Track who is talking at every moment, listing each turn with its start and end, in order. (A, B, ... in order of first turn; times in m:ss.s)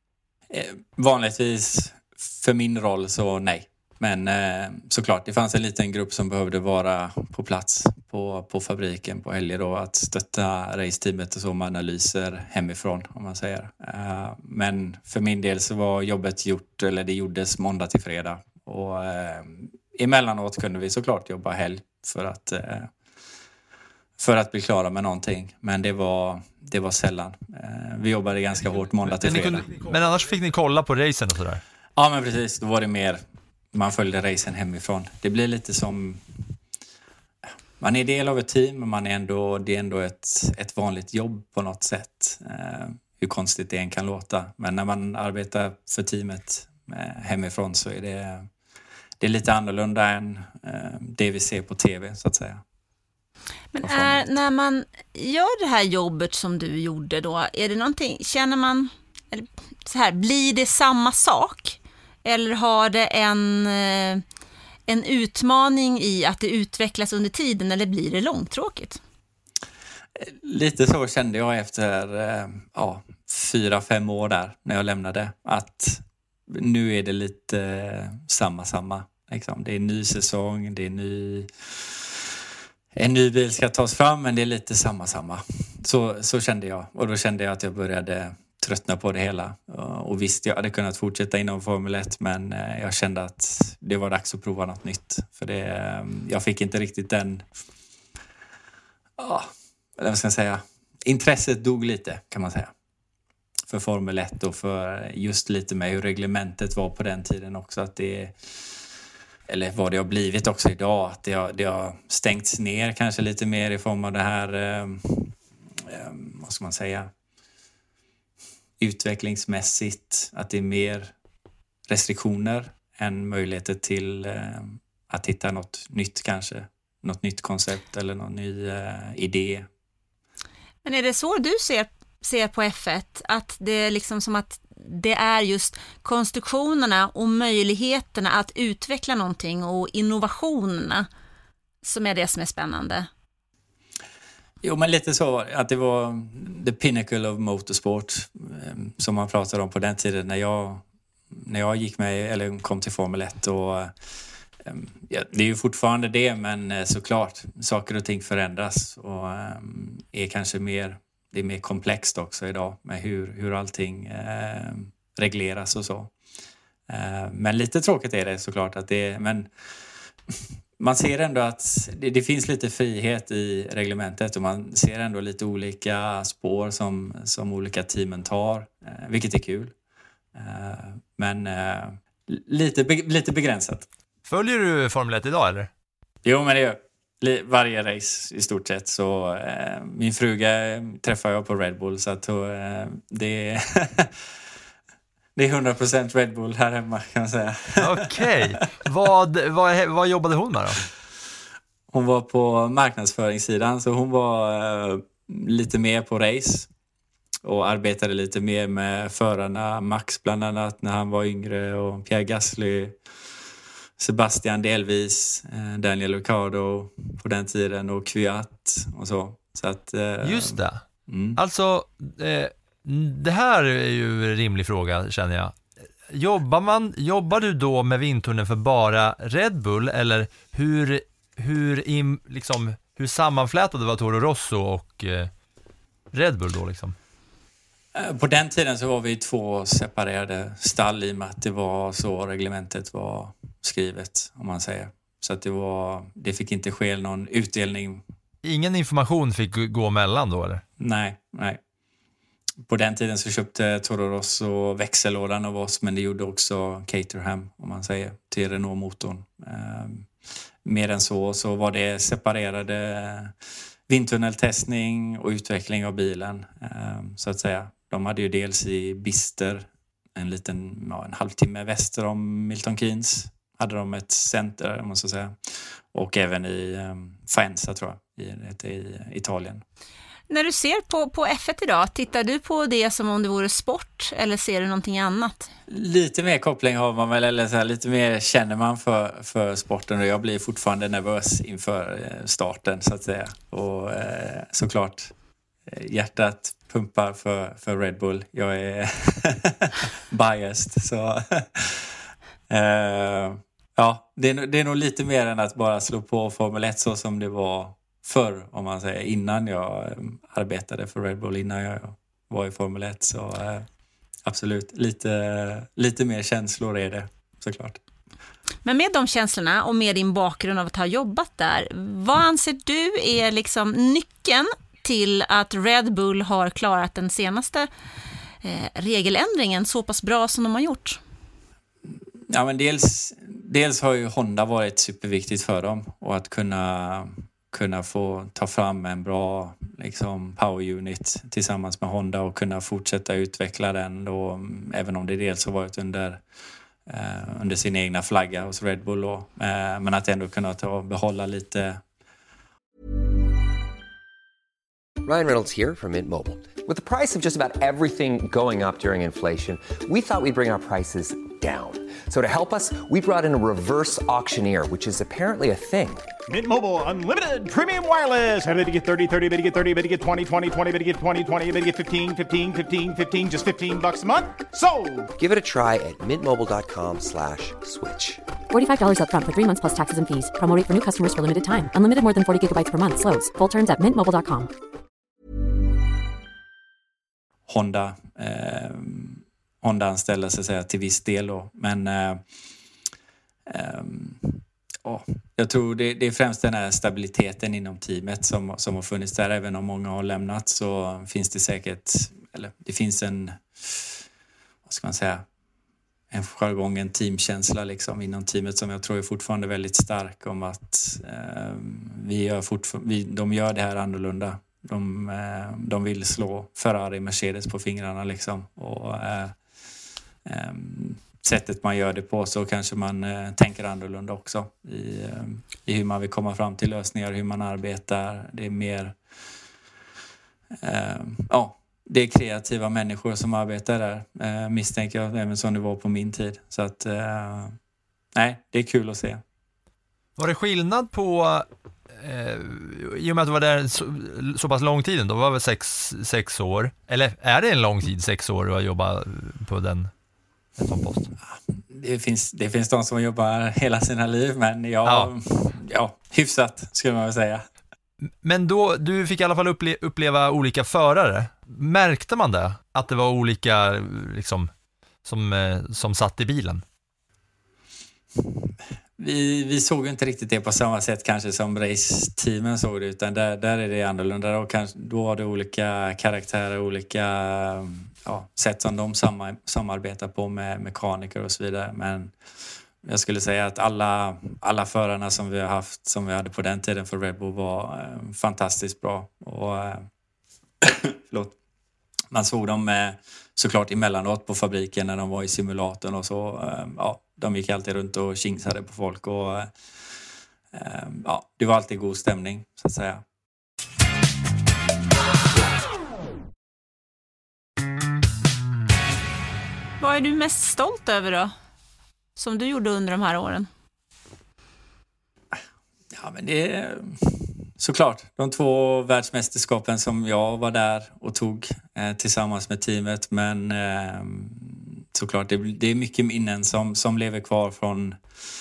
0:00.5-0:22.9 A
0:24.2-0:29.9 A
0:29.0-0:31.6 B
0:32.0-0:33.2 A
0:33.7-0:36.5 A
0:37.8-0:48.5 A
0:49.2-0:52.6 A
0:53.7-1:04.2 C
0:53.8-0:54.3 A
1:04.9-1:09.0 C
1:10.2-1:22.3 A
1:23.0-1:37.5 A
1:39.2-1:42.7 A
1:43.7-1:48.4 A
1:49.5-1:57.1 A
1:58.8-2:01.1 A
2:01.9-2:09.7 A
2:10.8-2:21.1 C
2:21.8-2:23.1 C
2:24.6-2:33.9 A
2:34.6-2:46.1 A
2:46.9-2:49.5 A
2:50.3-2:59.7 A
3:00.3-3:03.9 A
3:04.3-3:05.7 B
3:06.2-3:14.2 A
3:15.4-3:18.5 A
3:17.8-3:20.8 B
3:21.9-3:26.7 A
3:27.4-3:33.0 A
3:34.0-3:40.6 A
3:40.2-3:40.8 B
3:41.1-3:41.4 A
3:41.4-3:45.6 B
3:46.1-3:55.3 B
3:56.1-3:57.0 B
3:57.9-4:08.0 A
4:08.4-4:10.6 B
4:10.8-4:11.6 A
4:12.6-4:20.1 A
4:20.6-4:23.4 A
4:23.9-4:39.6 A
4:40.3-4:45.5 C
4:45.7-4:55.1 A
4:55.7-5:13.7 A
5:14.2-5:17.8 A
5:18.6-5:27.7 C
5:28.4-5:31.0 C
5:31.9-5:46.2 A
5:46.9-5:51.8 A
5:55.0-6:06.1 D
6:06.3-6:15.1 E
6:15.2-6:18.2 D
6:18.5-6:24.5 F
6:27.5-6:32.2 A
6:33.5-6:44.0 A
6:44.7-6:45.2 A
6:46.1-6:59.4 A
7:00.2-7:09.0 A
7:10.6-7:17.6 A
7:18.2-7:19.2 A
7:20.2-7:29.9 B
7:30.6-7:31.1 B
7:31.6-7:37.5 A
7:34.8-7:35.1 B
7:38.2-7:44.5 B
7:45.0-7:46.6 B
7:48.2-8:02.1 A
8:02.8-8:09.9 A
8:10.6-8:11.3 A
8:12.1-8:19.5 A
8:20.5-8:23.0 A
8:29.8-8:31.3 C
8:32.2-8:33.5 C
8:35.9-8:48.0 A